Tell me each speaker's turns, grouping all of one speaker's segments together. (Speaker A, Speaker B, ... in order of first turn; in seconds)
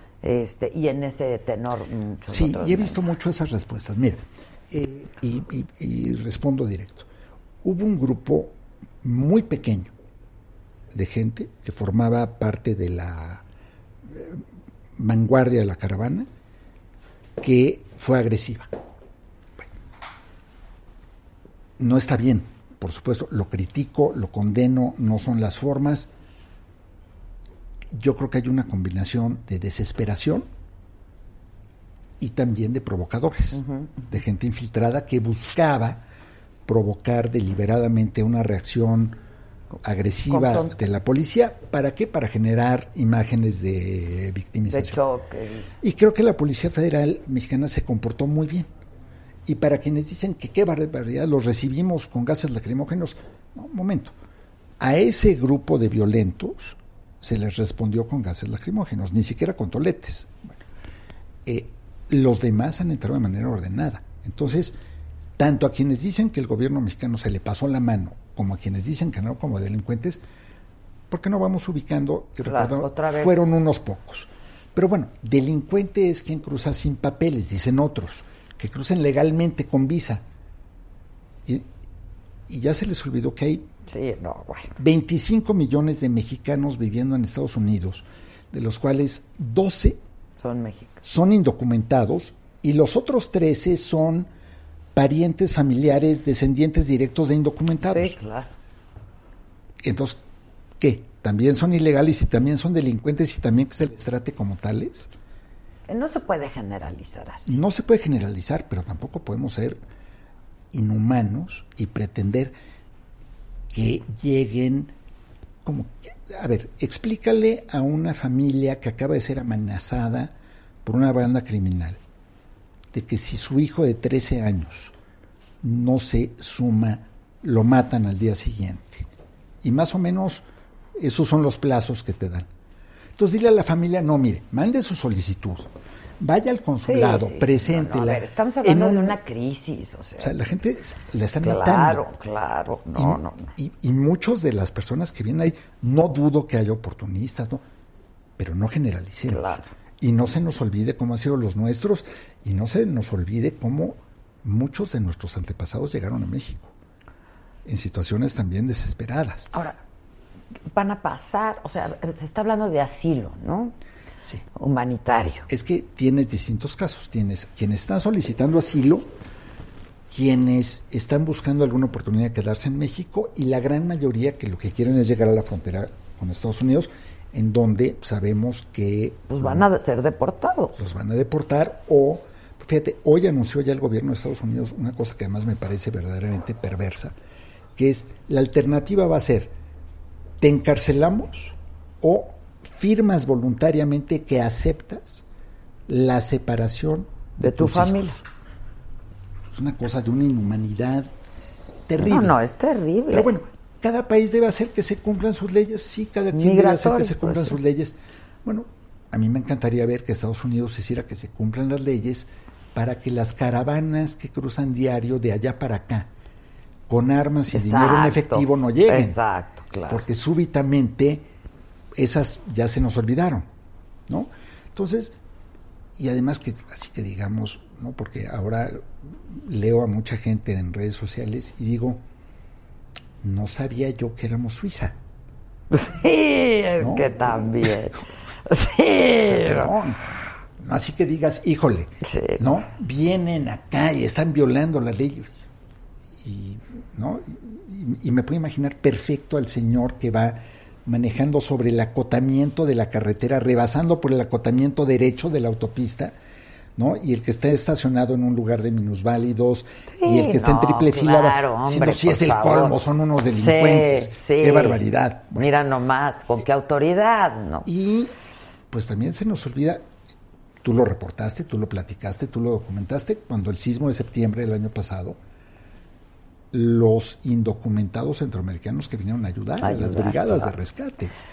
Speaker A: 0.2-3.1, 33.5-34.1, 40.3-40.7, 44.7-45.7, 72.4-73.4, 83.9-84.7, 90.4-91.0, 97.9-98.5, 105.9-107.6, 136.8-140.3, 141.4-143.5, 149.3-149.7, 159.5-159.8, 160.7-163.8, 164.6-165.5, 179.3-180.8, 197.4-198.2, 202.0-203.3, 206.3-207.6, 217.5-220.0, 235.7-239.7, 242.0-242.4, 260.0-262.8, 263.4-264.8, 265.4-267.7, 279.6-280.5
Speaker B: 2.3-7.1, 7.6-9.9, 10.9-13.4, 14.1-14.4, 15.0-16.3, 17.4-18.7, 21.8-26.1, 27.9-30.5, 32.2-36.0, 36.7-39.2, 39.8-45.0, 45.8-48.7, 49.5-54.1, 54.8-60.6, 61.5-64.8, 65.4-70.2, 71.1-80.2, 82.5-83.7, 84.8-90.0, 91.0-94.3, 94.9-98.2, 99.8-100.2, 100.8-105.1, 107.5-109.8, 110.7-112.5, 113.7-115.0, 115.6-122.0, 122.9-124.9, 125.6-129.1, 129.6-132.5, 133.2-139.2, 140.2-142.0, 142.9-147.6, 148.4-156.7, 157.7-159.5, 165.5-169.1, 170.1-179.7, 180.8-187.2, 187.8-189.6, 190.4-195.2, 195.9-198.3, 199.5-201.1, 201.9-202.4, 203.1-216.1, 216.9-219.2, 219.9-221.3, 222.0-223.5, 224.1-225.2, 226.0-232.0, 233.2-235.0, 236.8-237.7, 239.2-240.0, 240.6-245.4, 246.2-256.1, 256.8-265.5, 267.7-268.1, 268.7-269.9, 270.6-275.2, 276.5-281.1